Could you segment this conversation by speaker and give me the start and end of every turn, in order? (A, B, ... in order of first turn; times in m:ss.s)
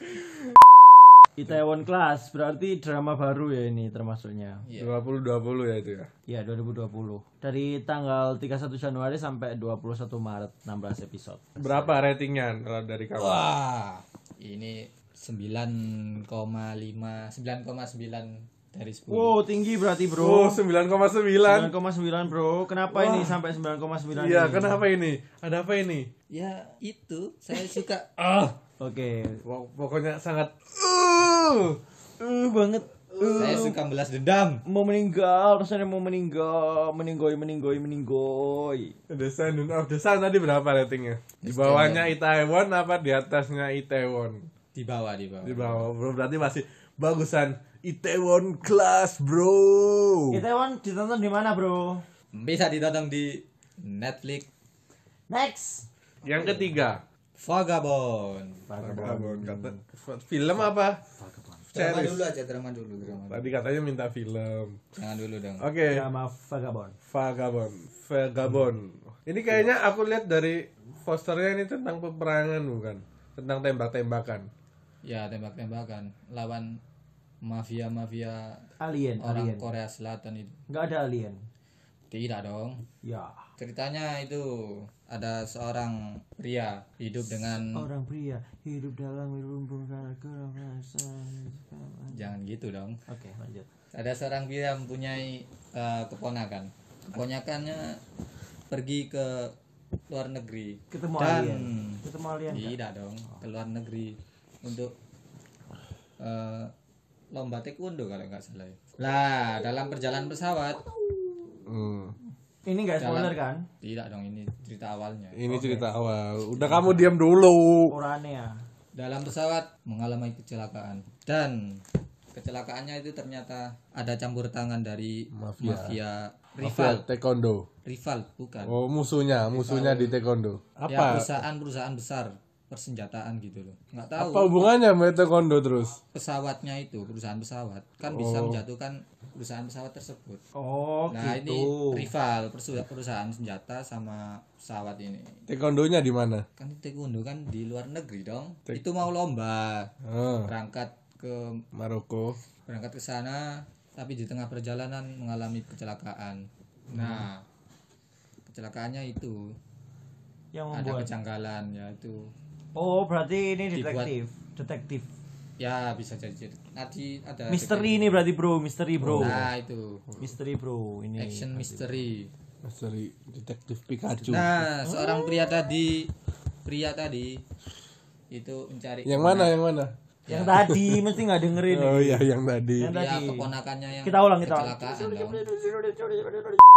0:01.4-0:04.7 A
0:04.7-0:04.9 B
0:04.8-0:06.1 C
0:06.3-0:12.0 A
0:11.6-0:13.4 C
0:13.2-0:19.4 B
0:19.1-0:20.6 A
0:20.1-0:21.7 C
0:21.4-0:24.8 A
0:23.0-0:23.3 C
0:24.1-0:26.1 C
0:26.3-0:28.2 B
0:28.3-0:28.5 C
0:28.8-0:29.4 A
0:29.4-0:30.6 C
0:31.3-0:31.6 C
0:32.2-0:33.8 A
0:33.4-0:34.6 B
0:34.7-0:39.0 A
0:39.1-0:44.5 C
0:41.4-0:42.1 B
0:44.8-0:45.9 B
0:45.4-0:50.4 C
0:50.3-0:52.0 A
0:52.3-0:54.5 B
0:55.3-0:56.7 A
0:56.2-0:57.0 C
0:57.4-0:58.6 B
0:58.7-0:59.8 A
0:58.8-1:01.0 C
1:01.1-1:01.7 A
1:01.7-1:03.5 B
1:01.8-1:02.2 C
1:03.2-1:04.9 C
1:05.0-1:05.7 B
1:05.6-1:06.1 C
1:05.9-1:07.0 A
1:07.1-1:14.5 C
1:15.0-1:16.8 B
1:17.4-1:18.7 B
1:18.8-1:19.7 A
1:19.2-1:20.6 B
1:20.7-1:21.4 A
1:22.1-1:22.8 B
1:23.0-1:23.4 A
1:23.6-1:27.9 B
1:27.7-1:32.3 A
1:32.1-1:33.0 B
1:33.1-1:33.7 A
1:33.9-1:38.0 B
1:38.7-1:39.6 B
1:40.1-1:44.9 B
1:40.9-1:42.8 A
1:46.2-1:46.7 B
1:47.3-1:50.8 B
1:51.7-1:52.1 C
1:52.7-1:53.7 A
1:53.0-1:55.4 B
1:55.3-1:58.0 C
1:55.5-1:55.8 A
1:56.7-1:57.0 B
1:57.9-1:58.6 A
1:59.0-2:07.0 B
2:05.3-2:06.0 C
2:06.6-2:07.7 C
2:07.8-2:08.8 B
2:08.6-2:11.3 C
2:09.6-2:10.2 B
2:10.9-2:14.5 B
2:14.2-2:16.0 C
2:16.1-2:20.4 B
2:18.1-2:18.6 C
2:20.6-2:22.1 A
2:21.1-2:25.4 B
2:25.5-2:26.5 C
2:26.6-2:29.9 B
2:30.0-2:30.5 C
2:30.4-2:31.6 B
2:31.7-2:32.4 C
2:32.7-2:37.4 B
2:36.9-2:37.2 C
2:38.5-2:39.5 B
2:40.5-2:41.1 A
2:40.7-2:42.3 B
2:42.8-2:45.1 A
2:43.7-2:44.1 B
2:45.6-2:48.2 B
2:47.5-2:49.4 A
2:49.0-2:49.5 C
2:49.1-2:50.0 B
2:50.2-2:52.0 A
2:51.2-2:52.3 B
2:52.6-2:54.7 C
2:54.1-2:54.4 A
2:54.3-2:56.1 B
2:56.6-2:57.4 B
2:58.3-2:59.5 B
2:59.1-2:59.9 C
3:00.3-3:00.6 B
3:00.3-3:02.3 A
3:00.7-3:01.0 C
3:01.6-3:02.9 C
3:02.8-3:03.5 A
3:02.9-3:05.4 B
3:04.0-3:06.6 A